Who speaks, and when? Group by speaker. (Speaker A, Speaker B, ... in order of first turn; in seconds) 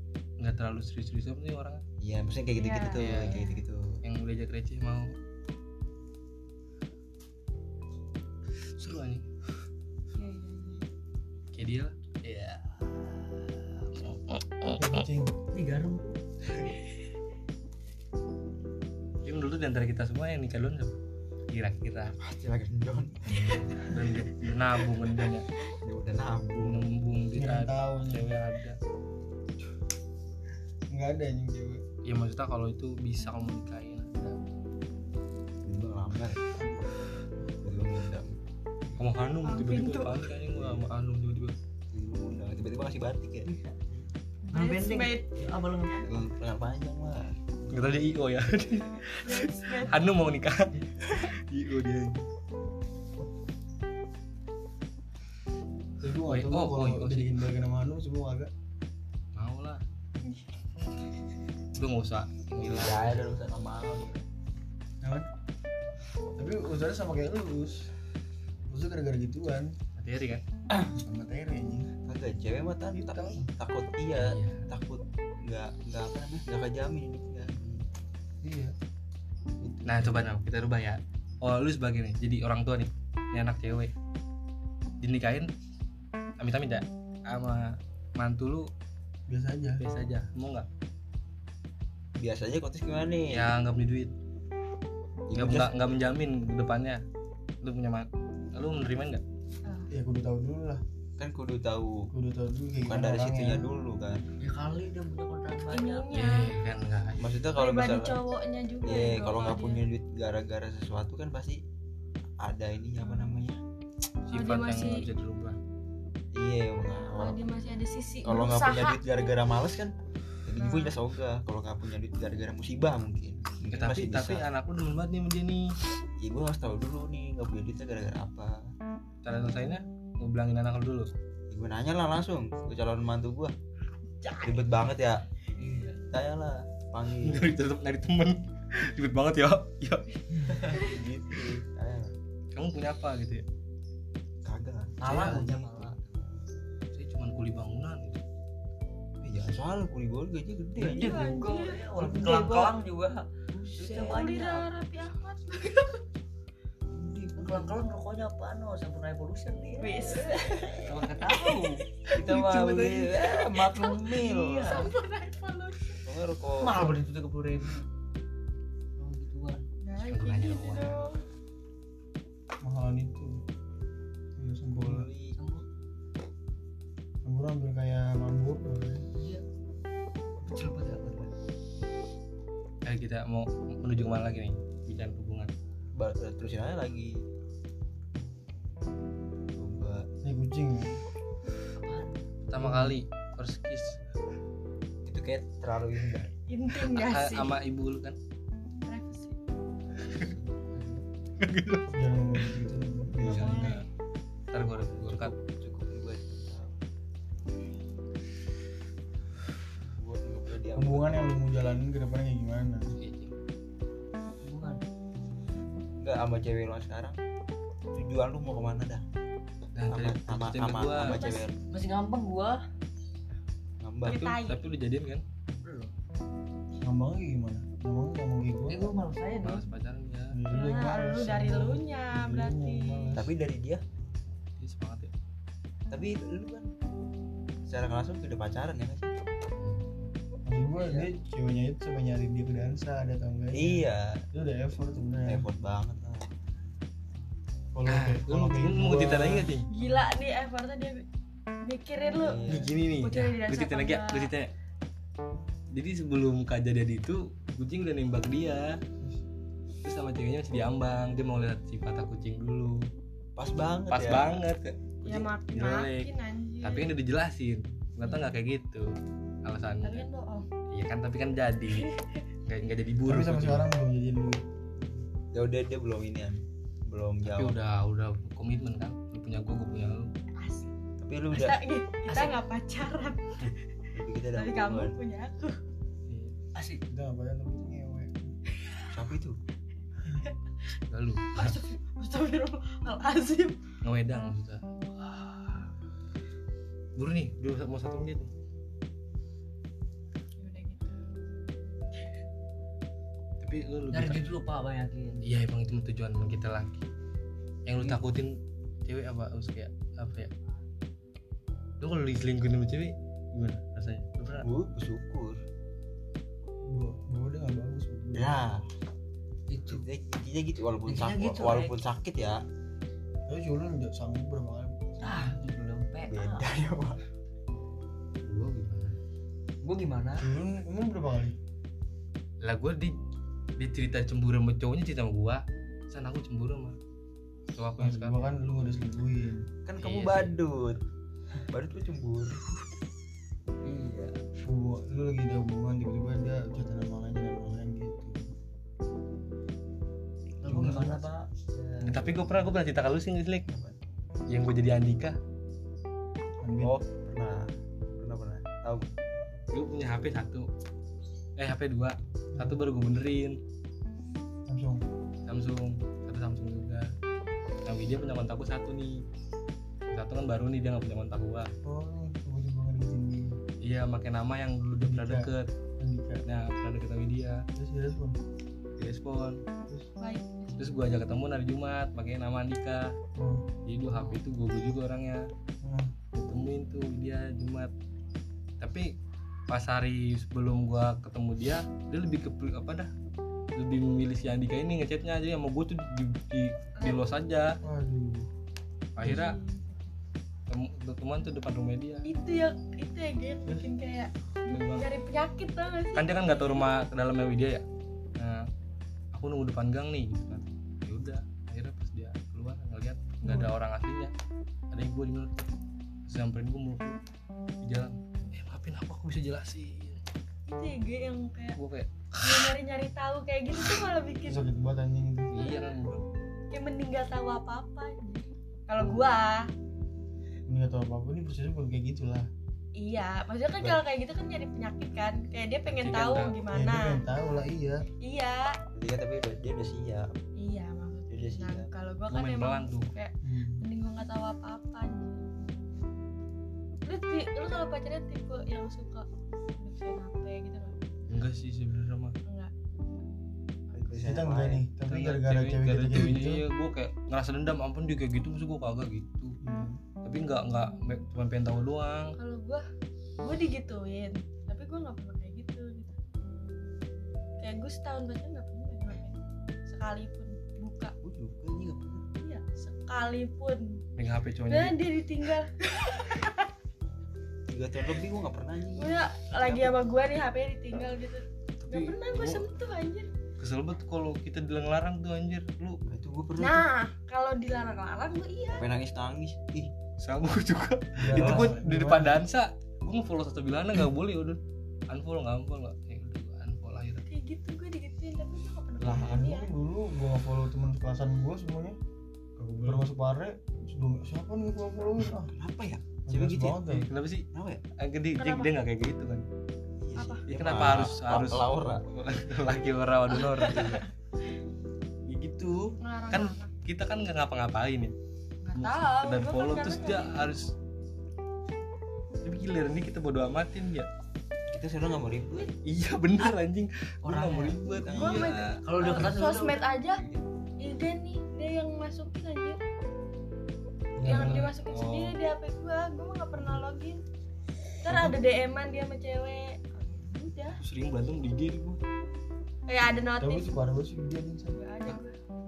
Speaker A: 0.4-1.8, 3.0-3.4, 4.0-5.1, 8.8-9.3, 11.5-14.9, 19.2-20.9, 21.5-22.2, 23.3-25.5, 26.6-28.8, 32.0-34.4, 39.0-41.5, 47.7-52.2, 56.3-57.4, 59.4-59.8, 61.8-63.2, 70.0-70.4, 74.1-74.7, 79.8-83.9, 85.0-85.5, 86.4-88.7, 89.8-90.7, 93.3-94.1, 95.3-97.0, 97.6-99.2, 106.1-107.3, 114.3-115.6, 123.7-125.7, 129.2-131.1, 137.2-140.1, 142.5-143.4, 146.9-148.2, 160.9-161.6, 170.0-171.0, 182.8-185.5, 192.5-194.0, 196.8-198.2, 201.4-201.9, 203.2-203.8, 204.5-205.3, 213.0-213.3, 219.8-221.2, 224.1-225.2, 229.4-230.4, 234.6-235.1, 239.6-239.9, 247.9-249.7, 252.5-254.5, 255.7-258.8, 259.8-262.9, 263.9-266.1, 266.6-268.9, 269.4-270.1, 270.7-271.9, 272.4-273.7, 277.2-280.1, 286.1-286.3, 290.9-291.6, 293.8-295.7, 297.0-298.3, 303.4-304.3, 305.2-306.9, 307.6-310.3, 311.8-314.5, 328.2-329.0, 332.4-333.0, 333.6-336.8, 337.6-338.3, 339.8-340.4, 351.8-353.5, 354.3-355.2, 359.5-360.5, 361.4-363.4, 365.3-366.9, 367.6-369.0, 369.9-371.5, 373.6-375.5, 376.3-377.4, 378.8-379.4, 380.6-382.9, 383.7-385.3, 386.1-387.7, 388.6-388.9, 389.5-392.9, 393.6-397.6, 399.0-399.4, 400.5-402.1, 404.5-404.9, 405.9-407.6, 408.2-408.5, 409.1-414.1, 414.7-415.5, 416.1-417.0, 417.6-420.0, 421.6-422.6, 425.3-426.0, 435.7-436.4, 442.1-442.9, 451.1-452.2, 454.9-459.4, 460.0-462.1, 474.0-474.8, 481.6-482.4, 483.4-485.8, 490.0-497.0, 502.4-502.9, 506.7-507.3, 507.8-509.2, 510.3-513.9, 515.1-518.0, 518.5-520.5, 522.2-523.9, 525.6-528.6, 534.0-535.2, 540.6-541.8
Speaker B: 2.0-4.0, 22.2-24.0, 25.8-26.8, 35.6-36.4, 37.6-38.4, 40.5-40.9, 41.9-44.0, 46.0-47.4, 62.6-64.2, 72.1-77.8, 79.6-80.1, 92.2-93.5, 95.3-95.8, 101.2-102.1, 102.8-104.2, 107.2-108.2, 108.8-111.6, 112.4-113.6, 116.3-117.4, 118.2-119.9, 120.5-124.5, 126.2-128.6, 131.5-133.5, 134.4-135.2, 136.1-137.5, 140.5-142.1, 144.4-146.2, 149.2-151.3, 152.0-152.7, 153.5-154.2, 156.9-157.8, 162.1-164.9, 166.1-166.9, 174.8-175.3, 185.9-187.2, 189.5-190.1, 195.1-196.3, 200.1-200.4, 204.6-206.8, 209.9-211.3, 216.0-217.2, 217.9-219.0, 219.9-221.6, 223.8-224.3, 233.2-233.8, 235.9-236.7, 237.7-239.1, 243.5-244.2, 245.3-246.3, 252.1-252.8, 263.4-264.4, 275.3-277.6, 281.0-281.6, 283.9-285.0, 288.9-289.4, 314.4-315.4, 318.1-318.7, 319.7-322.4, 326.1-327.0, 339.6-340.8, 341.5-342.6, 353.5-353.8, 356.6-358.9, 438.8-440.1, 441.1-441.7, 453.7-454.6, 471.0-472.1, 477.5-479.8, 485.9-486.7, 488.5-489.7, 491.1-491.6, 505.2-506.7, 507.3-507.6, 509.8-511.9, 524.5-525.5, 527.0-528.5, 530.0-530.2
Speaker C: 2.5-3.6, 10.2-10.9, 39.4-40.3, 44.5-45.4, 49.2-50.0, 60.2-60.5, 99.6-99.9, 105.7-106.6, 107.5-109.8, 113.1-113.3, 114.3-115.1, 117.0-119.3, 120.6-121.0, 134.2-134.6, 140.7-141.0, 150.8-151.9, 154.0-156.0, 159.8-160.8, 164.6-166.0, 169.8-171.2, 196.5-197.6, 198.8-199.4, 203.2-203.9, 221.0-221.5, 224.1-224.7, 230.5-233.2, 249.7-251.0, 251.7-254.3, 265.1-266.9, 268.0-268.4, 269.8-270.5, 271.7-272.2, 280.4-280.7, 281.3-283.5, 284.3-285.6, 291.3-293.6, 300.4-301.0, 380.0-380.8, 399.0-399.9, 402.1-406.1, 420.5-421.6, 422.2-424.4, 426.5-429.5, 432.8-437.1, 438.0-438.5, 440.4-445.3, 446.9-450.9, 452.3-452.5, 462.2-462.7, 463.2-466.0, 467.4-470.9, 472.2-473.8, 474.5-476.5, 478.8-483.1, 486.4-488.7, 497.1-499.5, 508.2-508.5, 510.0-510.3, 513.1-513.9, 515.8-516.5, 518.4-520.4, 527.8-530.0, 530.6-532.6, 534.0-537.0, 537.8-540.6, 542.7-543.5, 544.5-545.2
Speaker D: 14.7-15.3, 27.3-28.4, 30.9-31.8, 36.5-37.6, 56.0-58.5, 65.0-65.3, 66.4-67.9, 68.7-69.8, 71.0-71.9, 72.9-73.5, 78.4-78.7, 89.3-89.8, 99.9-100.8, 102.1-103.7, 172.6-173.4, 174.4-175.1, 177.2-179.1, 190.2-191.0, 192.6-193.0, 201.9-203.7, 210.8-212.9, 226.8-228.9, 230.3-233.3, 240.5-245.5, 247.7-250.0, 273.1-274.4, 286.9-288.4, 316.7-318.4, 323.3-325.4, 330.2-331.4, 337.8-339.5, 344.4-348.3, 350.4-351.1, 356.4-356.8, 362.3-362.6, 364.5-364.8, 371.6-373.4, 374.8-376.2, 377.6-378.2, 383.2-383.4, 385.6-385.9, 397.6-398.3, 424.2-425.3, 430.5-432.3, 436.5-437.8, 443.2-443.6, 454.0-456.4, 459.4-459.8, 491.0-492.2, 498.8-501.8, 502.6-505.3, 506.1-506.9, 534.0-534.5, 536.3-536.6, 537.9-538.2, 543.1-544.6
Speaker E: 15.5-16.2, 43.5-43.8, 44.5-46.1, 104.4-106.1, 135.6-136.0, 145.0-145.9, 150.8-153.3, 153.8-154.7, 157.4-164.9, 166.6-167.8, 169.0-169.6, 175.4-175.6, 179.1-179.4, 180.4-181.3, 191.8-192.2, 200.7-201.0, 214.4-214.8, 221.7-222.6, 225.6-225.9, 228.7-229.6, 282.1-282.4, 286.6-286.8, 303.9-305.2, 319.5-319.9, 320.9-321.8, 325.0-326.5, 329.6-330.2, 343.6-344.2, 350.4-352.2, 528.6-529.7